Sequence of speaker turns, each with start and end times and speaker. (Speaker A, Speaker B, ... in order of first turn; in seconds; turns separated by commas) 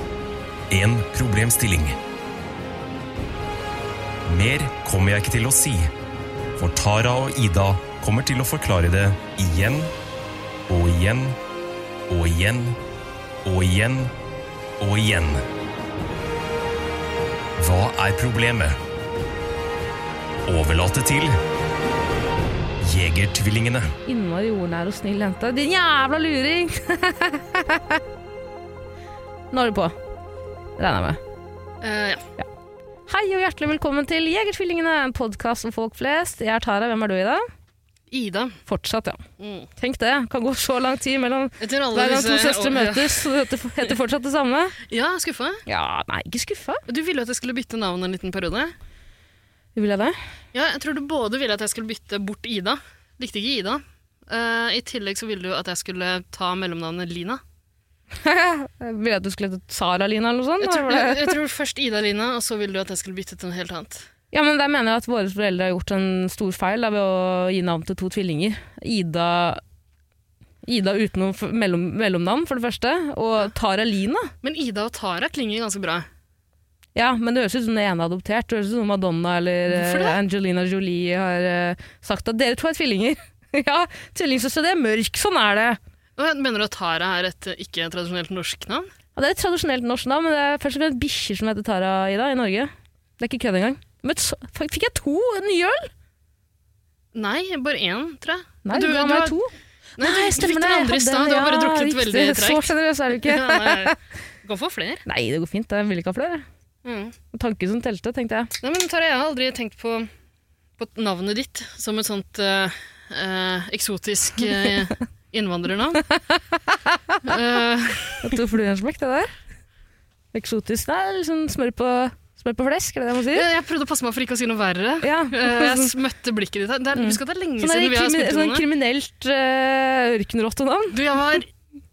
Speaker A: 0.7-2.0, Speaker A: 4.3-5.9, Speaker A: 6.6-9.9, Speaker A: 10.7-11.4, Speaker A: 12.1-12.8, Speaker A: 13.4-14.1, Speaker A: 14.8-15.4, Speaker A: 17.6-18.8, Speaker A: 20.5-21.4, Speaker A: 22.8-23.9, Speaker B: 24.1-28.0, Speaker B: 29.5-30.0, Speaker B: 30.8-31.2, Speaker C: 31.8-32.2, Speaker B: 33.1-37.5, Speaker C: 38.1-38.6, Speaker B: 38.7-39.2, Speaker C: 39.4-39.7, Speaker B: 39.8-44.8, Speaker C: 41.6-43.3, Speaker C: 44.9-45.6, Speaker B: 45.7-46.8, Speaker C: 46.9-48.7, Speaker B: 49.8-50.2, Speaker C: 50.5-57.4, Speaker B: 58.2-61.4, Speaker C: 60.6-64.1, Speaker B: 64.3-69.6, Speaker B: 70.6-74.3, Speaker C: 74.4-76.1, Speaker B: 77.0-85.8, Speaker C: 79.7-80.2, Speaker C: 86.2-88.9, Speaker B: 89.2-95.9, Speaker C: 97.1-99.4, Speaker B: 98.6-104.0, Speaker C: 100.0-105.0, Speaker B: 105.0-106.5, Speaker C: 106.8-107.2, Speaker B: 107.3-108.5, Speaker C: 108.6-110.1, Speaker C: 110.8-116.1, Speaker B: 116.0-117.4, Speaker C: 117.2-118.4, Speaker B: 118.2-119.3, Speaker B: 120.3-123.5, Speaker C: 123.3-128.7, Speaker B: 125.0-126.0, Speaker B: 126.9-131.0, Speaker C: 130.9-131.5